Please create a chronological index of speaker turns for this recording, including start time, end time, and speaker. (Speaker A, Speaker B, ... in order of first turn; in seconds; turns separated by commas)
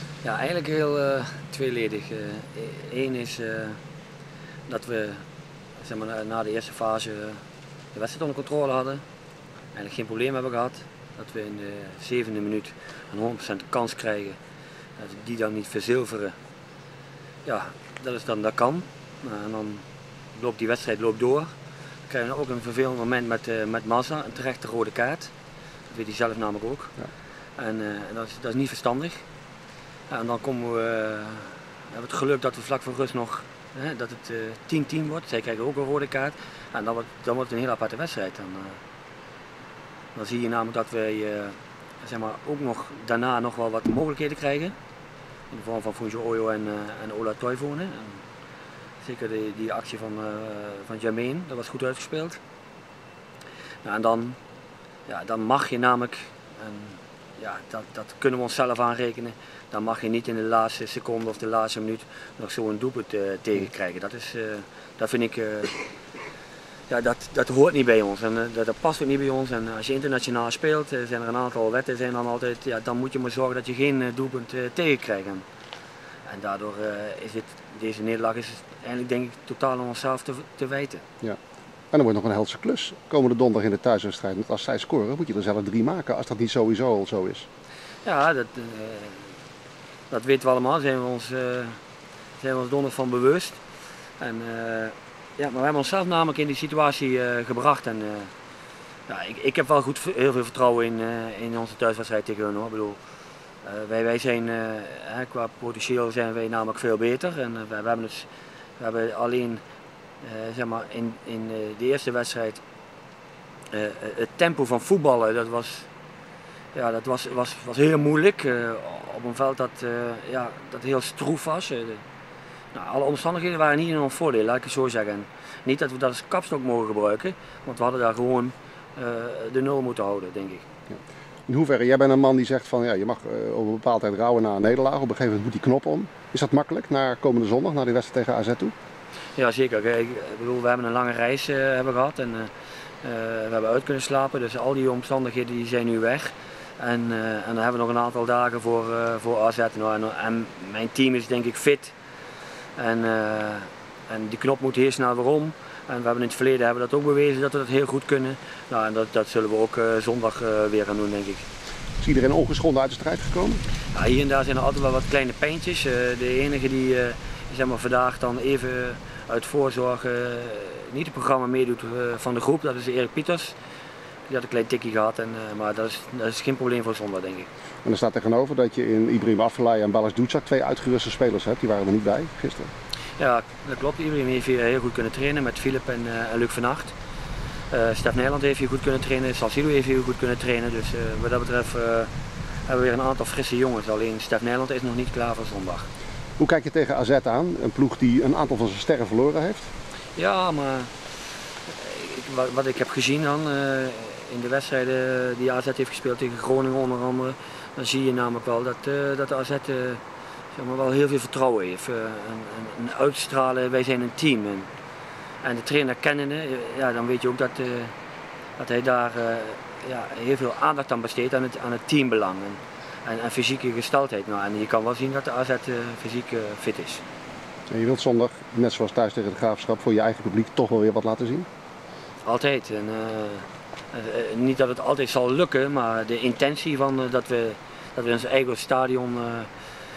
Speaker A: 0.2-3.8, Speaker A: 4.7-5.2, Speaker A: 5.8-7.4, Speaker A: 7.9-9.0, Speaker A: 9.7-14.4, Speaker A: 15.0-16.3, Speaker A: 17.4-19.8, Speaker A: 20.3-21.5, Speaker A: 22.1-25.3, Speaker A: 25.9-26.9, Speaker A: 27.6-29.2, Speaker A: 30.1-38.8, Speaker A: 40.1-44.7, Speaker A: 45.5-48.2, Speaker A: 49.0-52.4, Speaker A: 53.8-54.4, Speaker A: 55.1-65.8, Speaker A: 66.9-75.4, Speaker A: 76.3-81.0, Speaker B: 81.9-87.5, Speaker A: 88.0-89.3, Speaker A: 90.1-91.8, Speaker A: 92.4-93.6, Speaker A: 94.2-98.3, Speaker A: 99.1-103.0, Speaker A: 103.6-109.6, Speaker A: 110.2-112.6, Speaker A: 113.7-115.9, Speaker A: 116.7-122.0, Speaker A: 122.7-130.6, Speaker B: 130.9-138.7, Speaker A: 139.3-142.5, Speaker A: 143.0-151.9, Speaker A: 152.8-161.4, Speaker B: 162.0-163.6, Speaker A: 163.9-173.6, Speaker A: 174.3-177.5, Speaker B: 177.8-182.7, Speaker A: 183.2-186.9, Speaker A: 187.7-192.1, Speaker A: 192.7-195.9, Speaker B: 196.4-199.7, Speaker A: 200.2-200.9, Speaker A: 201.7-210.0, Speaker A: 210.5-214.7, Speaker A: 215.4-217.9, Speaker A: 218.6-227.0, Speaker B: 227.7-231.5, Speaker A: 232.2-239.5